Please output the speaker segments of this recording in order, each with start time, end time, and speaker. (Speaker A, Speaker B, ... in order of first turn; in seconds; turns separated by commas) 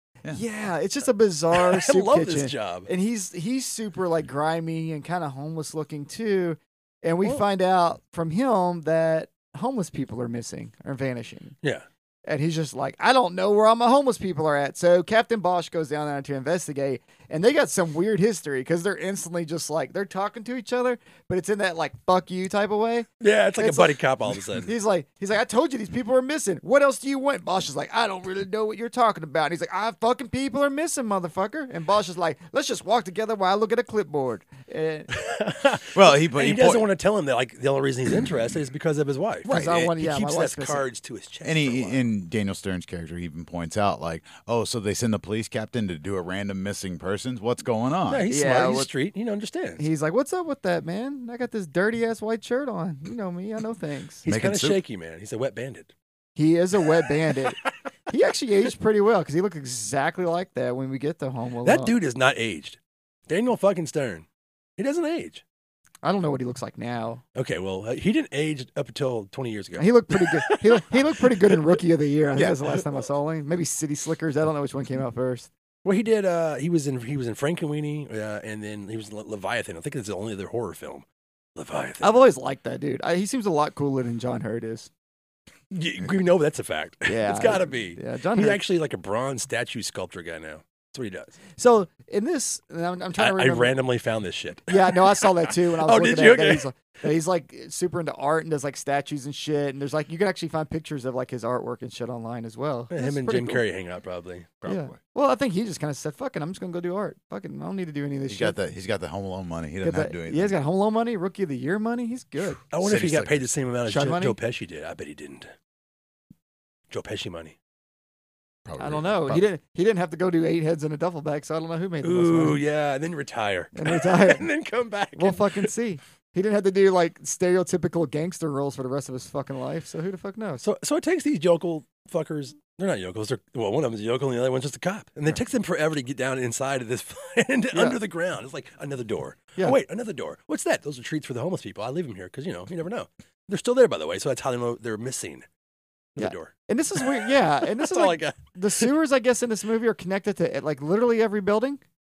Speaker A: 0.3-11.6, Speaker B: 1.5-2.9, Speaker A: 12.3-23.1, Speaker B: 23.2-24.7, Speaker A: 23.6-24.0, Speaker A: 24.5-35.1, Speaker B: 35.1-42.1, Speaker C: 35.9-36.9, Speaker A: 39.5-40.9, Speaker C: 39.5-39.9, Speaker C: 41.4-48.3, Speaker B: 48.1-49.9, Speaker A: 48.3-48.9, Speaker A: 49.8-54.2, Speaker B: 54.2-55.9, Speaker C: 54.3-54.8, Speaker A: 56.4-62.0, Speaker B: 61.6-64.3, Speaker B: 64.8-65.4, Speaker A: 66.0-67.2, Speaker B: 67.3-71.8, Speaker A: 69.8-75.5, Speaker B: 75.8-82.2, Speaker A: 82.0-84.9, Speaker B: 85.7-91.4, Speaker A: 87.1-88.6, Speaker A: 91.6-93.8, Speaker B: 93.2-96.7, Speaker A: 94.7-103.6, Speaker B: 102.9-104.5, Speaker C: 104.6-105.0, Speaker A: 104.7-108.6, Speaker C: 108.3-110.5, Speaker A: 109.8-112.6, Speaker B: 112.7-115.5, Speaker C: 112.8-113.5, Speaker A: 113.9-114.4, Speaker B: 116.9-117.6, Speaker C: 118.7-119.5, Speaker A: 118.8-122.6, Speaker B: 122.0-125.7, Speaker A: 123.8-124.5, Speaker A: 125.2-130.6, Speaker B: 130.6-145.5, Speaker A: 137.7-138.0, Speaker B: 146.2-148.9, Speaker A: 146.2-151.8